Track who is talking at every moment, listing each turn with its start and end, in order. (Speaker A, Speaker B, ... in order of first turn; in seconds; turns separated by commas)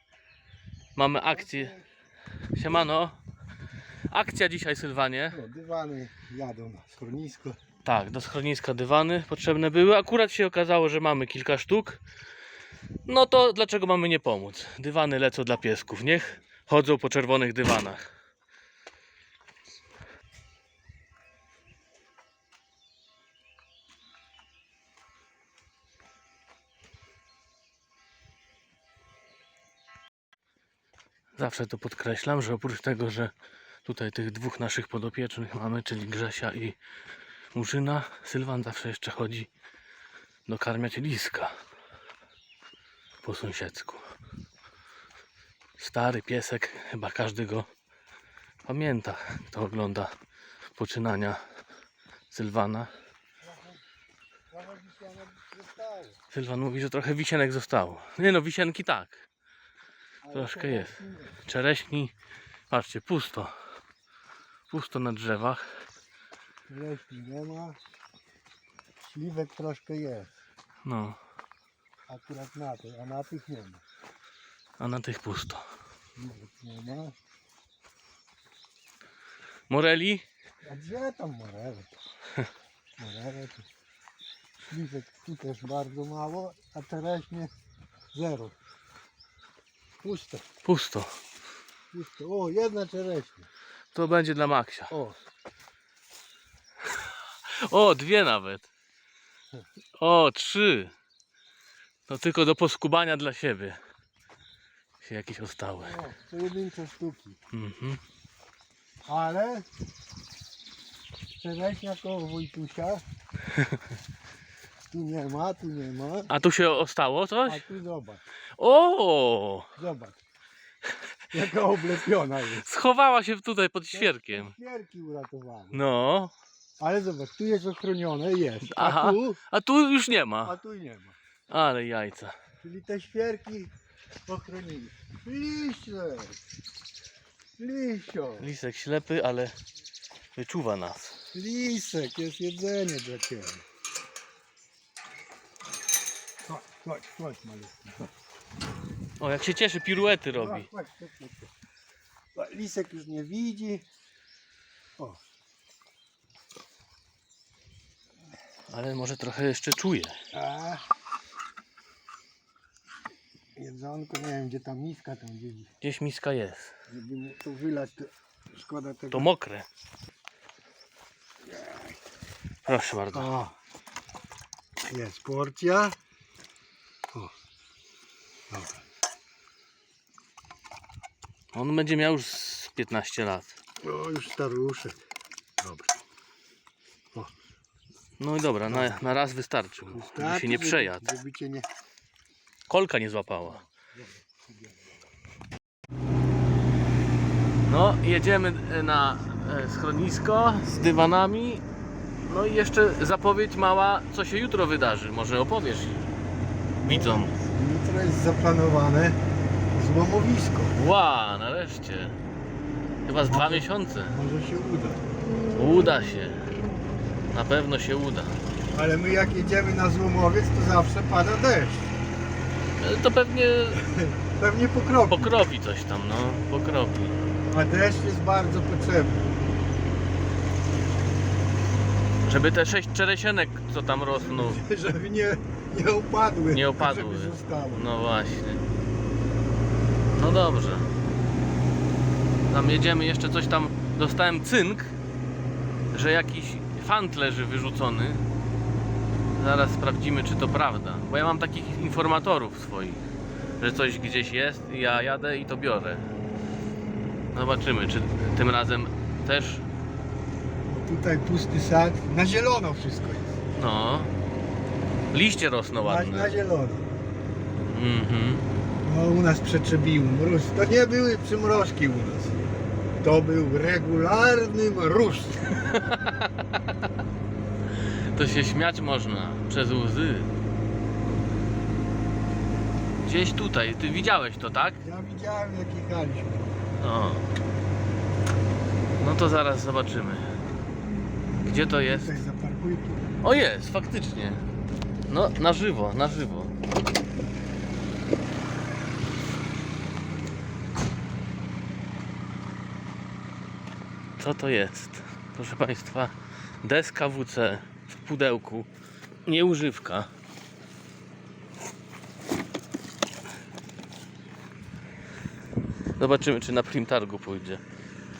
Speaker A: 0.9-1.7, Speaker B: 1.2-1.9, Speaker A: 2.5-3.2, Speaker A: 4.1-5.4, Speaker B: 5.3-7.6, Speaker A: 7.8-12.0, Speaker A: 13.1-18.0, Speaker A: 31.4-33.3, Speaker A: 33.8-36.8, Speaker A: 37.5-39.5, Speaker A: 40.5-41.5, Speaker A: 43.2-44.0, Speaker A: 45.8-47.7, Speaker A: 48.6-50.1, Speaker A: 50.8-51.4, Speaker A: 52.3-52.9, Speaker B: 53.4-53.8, Speaker B: 54.5-56.2, Speaker A: 56.3-59.2, Speaker B: 60.2-61.3, Speaker A: 60.3-62.1, Speaker A: 62.7-63.5, Speaker A: 64.7-65.7, Speaker B: 66.7-67.8, Speaker B: 69.0-70.3, Speaker A: 70.8-71.2, Speaker B: 72.1-73.8, Speaker A: 74.8-75.7, Speaker B: 76.2-77.2, Speaker A: 79.7-80.2, Speaker B: 80.6-81.9, Speaker B: 83.0-83.6, Speaker B: 84.7-87.5, Speaker B: 88.1-88.5, Speaker B: 90.0-90.4, Speaker A: 90.6-91.1, Speaker B: 91.9-93.5, Speaker A: 93.9-94.9, Speaker B: 94.9-95.2, Speaker A: 97.5-98.7, Speaker A: 100.0-100.9, Speaker A: 102.1-103.8, Speaker A: 105.0-106.0, Speaker B: 105.8-107.4, Speaker A: 107.5-108.0, Speaker B: 109.0-109.7, Speaker B: 111.4-113.0, Speaker B: 114.9-116.3, Speaker A: 116.3-117.7, Speaker B: 117.5-118.2, Speaker A: 118.6-119.7, Speaker B: 119.8-120.2, Speaker B: 121.3-122.7, Speaker A: 122.5-124.5, Speaker B: 123.9-125.8, Speaker A: 125.7-126.3, Speaker B: 126.8-129.4, Speaker A: 128.7-130.6, Speaker B: 130.4-131.2, Speaker A: 131.5-132.3, Speaker B: 132.6-133.7, Speaker B: 134.3-136.4, Speaker B: 137.6-138.5, Speaker A: 138.4-139.5, Speaker A: 140.3-141.2, Speaker B: 141.3-143.6, Speaker B: 146.4-148.1, Speaker A: 149.2-150.7, Speaker B: 150.2-151.5, Speaker B: 152.3-153.8, Speaker A: 158.7-160.1, Speaker B: 160.3-160.8, Speaker B: 163.6-165.7, Speaker A: 165.8-166.7, Speaker B: 166.9-169.3, Speaker A: 169.1-169.7, Speaker B: 171.6-171.9, Speaker A: 172.7-173.3, Speaker B: 173.1-173.5, Speaker B: 174.9-176.0, Speaker A: 181.5-183.5, Speaker B: 183.8-185.0, Speaker A: 188.2-191.0, Speaker B: 188.7-189.0, Speaker B: 189.9-191.7, Speaker A: 192.7-193.6, Speaker B: 193.5-194.9, Speaker A: 197.7-201.6, Speaker A: 202.2-206.1, Speaker B: 206.8-209.2, Speaker A: 206.8-207.3, Speaker B: 209.7-210.7, Speaker A: 210.7-212.2, Speaker A: 213.1-214.2, Speaker B: 213.2-215.0, Speaker A: 215.5-216.4, Speaker A: 217.3-218.4, Speaker B: 218.7-221.9, Speaker A: 222.8-223.8, Speaker B: 223.7-225.3, Speaker A: 225.1-227.1, Speaker B: 227.5-229.3, Speaker A: 232.2-234.6, Speaker B: 234.1-237.9, Speaker A: 236.5-238.7, Speaker A: 240.1-240.9, Speaker A: 242.5-244.9, Speaker A: 245.9-248.3, Speaker A: 249.3-253.0, Speaker A: 253.6-256.1, Speaker A: 257.3-259.6, Speaker B: 260.7-263.4, Speaker A: 263.6-264.1, Speaker A: 265.1-266.3, Speaker B: 265.8-266.9, Speaker A: 267.7-268.4, Speaker B: 268.8-272.4, Speaker B: 273.0-275.5, Speaker A: 275.6-276.5, Speaker A: 278.0-280.3, Speaker A: 283.0-284.8, Speaker B: 284.8-286.6, Speaker A: 286.8-287.3, Speaker A: 289.0-290.3, Speaker A: 291.4-292.2, Speaker B: 291.7-293.1, Speaker A: 293.2-294.4, Speaker A: 295.1-296.5, Speaker A: 304.2-308.7, Speaker A: 309.2-310.1, Speaker A: 316.0-317.6